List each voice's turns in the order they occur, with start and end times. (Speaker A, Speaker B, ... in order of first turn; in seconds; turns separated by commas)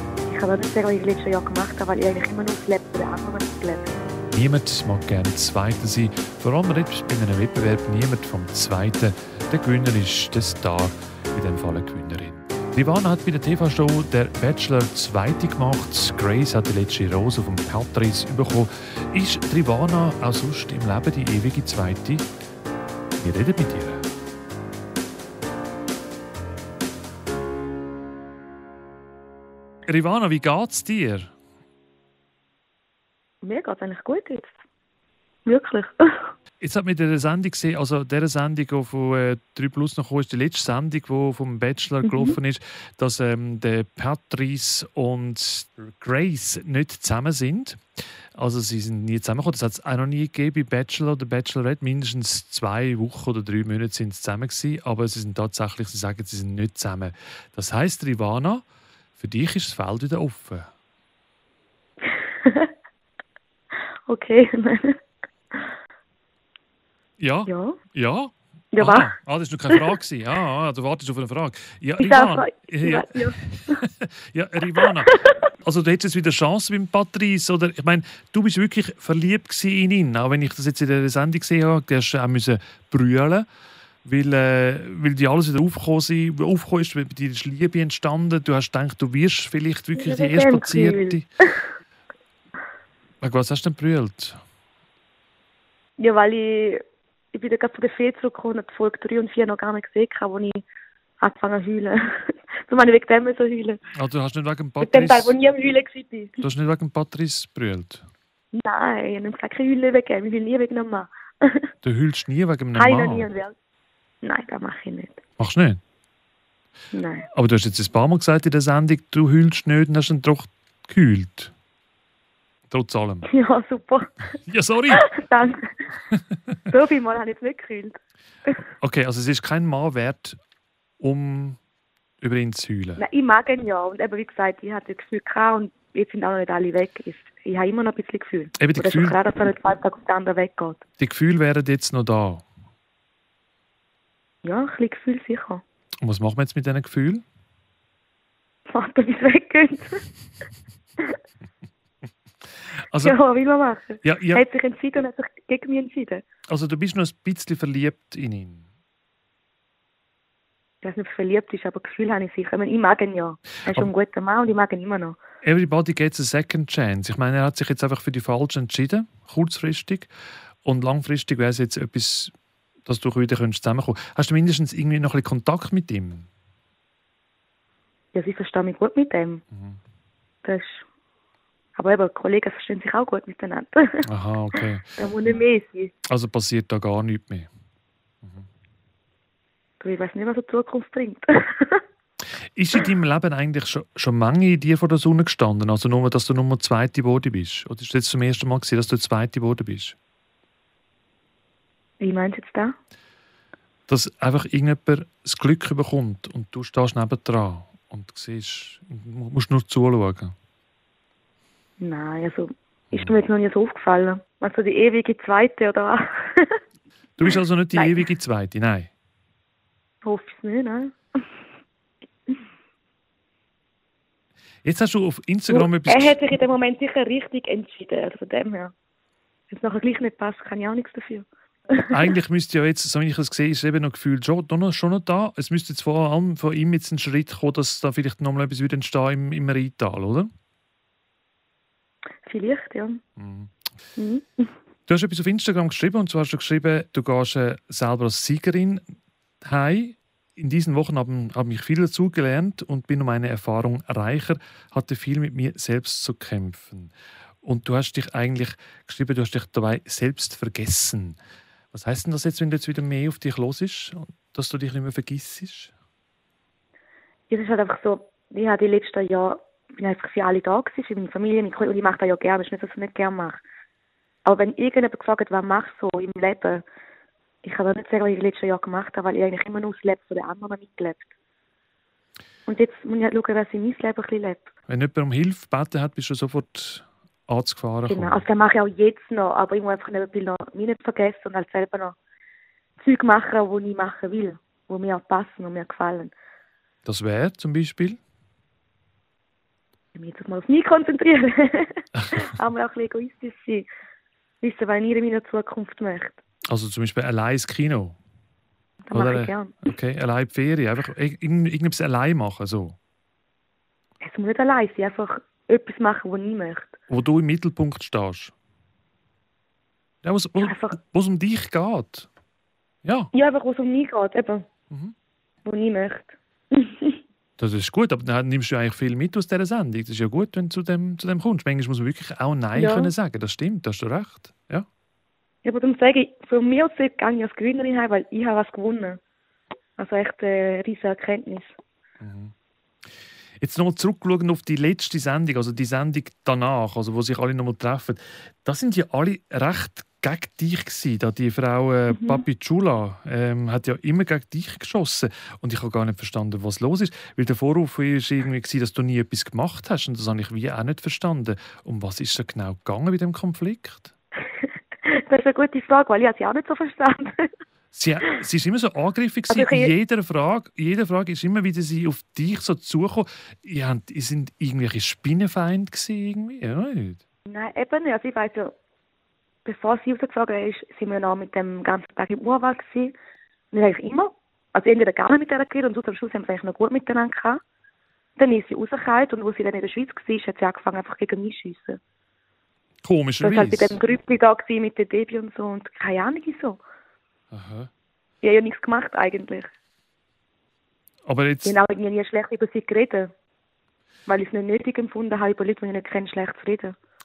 Speaker A: 0.2-4.0, Speaker B: 4.3-22.3, Speaker B: 23.2-24.1, Speaker B: 29.9-31.3, Speaker A: 33.4-34.5, Speaker A: 35.5-36.3, Speaker B: 36.6-47.8, Speaker A: 42.0-42.4, Speaker B: 48.4-58.6, Speaker B: 59.2-60.7, Speaker A: 62.1-62.7, Speaker A: 64.1-65.0, Speaker B: 67.2-83.5, Speaker A: 67.5-67.8, Speaker A: 68.7-69.1, Speaker A: 72.0-73.8, Speaker A: 74.7-75.3, Speaker B: 84.0-91.2, Speaker A: 90.0-91.7, Speaker B: 93.2-94.4, Speaker A: 96.0-100.6, Speaker A: 101.2-103.8, Speaker B: 103.9-105.3, Speaker A: 104.8-106.4, Speaker B: 106.4-108.0, Speaker A: 108.5-111.7, Speaker B: 111.8-113.3, Speaker A: 112.7-113.5, Speaker A: 114.2-115.2, Speaker B: 115.4-115.8, Speaker A: 116.9-117.3, Speaker B: 117.3-121.5, Speaker B: 122.7-123.3, Speaker A: 123.3-124.3, Speaker B: 124.5-125.1, Speaker A: 124.9-125.8, Speaker A: 126.7-128.0, Speaker B: 128.8-130.4, Speaker B: 131.0-131.6, Speaker B: 132.2-133.0, Speaker A: 133.0-140.8, Speaker B: 138.6-139.2, Speaker B: 141.0-142.4, Speaker A: 144.4-145.6, Speaker B: 146.0-147.2, Speaker A: 148.7-150.0, Speaker B: 152.9-153.2, Speaker A: 153.0-156.2, Speaker B: 154.0-154.4, Speaker B: 156.5-158.6, Speaker A: 160.8-165.2, Speaker B: 165.4-170.1, Speaker B: 170.6-172.3, Speaker B: 172.8-176.3, Speaker A: 178.1-179.4, Speaker B: 179.5-179.8, Speaker A: 180.4-180.8, Speaker A: 181.8-184.0, Speaker B: 184.0-185.1, Speaker A: 185.0-185.9, Speaker B: 186.1-187.5, Speaker A: 189.8-191.8, Speaker B: 192.5-199.9, Speaker A: 202.0-202.7, Speaker B: 203.9-210.3, Speaker A: 211.8-216.6, Speaker B: 217.2-218.9, Speaker A: 217.3-218.0, Speaker A: 220.0-220.9, Speaker B: 224.6-226.2, Speaker A: 225.5-228.7, Speaker A: 229.5-232.0, Speaker B: 231.8-240.3, Speaker A: 242.2-243.0, Speaker B: 243.2-243.5, Speaker A: 243.9-244.5, Speaker B: 244.9-248.8, Speaker B: 249.4-261.2, Speaker B: 261.7-265.7, Speaker A: 267.3-273.4, Speaker A: 274.2-276.6, Speaker A: 277.4-281.1, Speaker A: 282.5-284.5, Speaker B: 284.7-288.2, Speaker A: 287.9-291.9, Speaker A: 292.8-296.1, Speaker B: 296.8-298.0, Speaker A: 299.9-303.7, Speaker A: 304.4-306.2, Speaker B: 306.5-307.9, Speaker A: 308.9-309.6, Speaker B: 308.9-312.8, Speaker A: 314.0-316.7, Speaker B: 316.9-318.3, Speaker B: 320.0-322.1, Speaker A: 320.4-320.8, Speaker B: 322.8-323.1, Speaker A: 323.1-324.4, Speaker A: 325.4-327.0, Speaker B: 327.4-334.7, Speaker A: 332.5-332.9, Speaker A: 335.4-339.0, Speaker A: 339.8-341.5, Speaker B: 342.0-342.3, Speaker B: 343.4-363.9, Speaker A: 351.9-352.2, Speaker A: 364.8-367.3, Speaker B: 367.7-377.0, Speaker A: 369.3-369.7, Speaker A: 377.3-378.5, Speaker A: 379.4-382.9, Speaker A: 383.5-387.4, Speaker A: 388.2-391.8, Speaker B: 392.8-393.8, Speaker A: 393.2-396.6, Speaker B: 397.3-397.7, Speaker A: 398.2-399.5, Speaker B: 401.1-401.6, Speaker A: 401.4-403.1, Speaker A: 404.1-406.8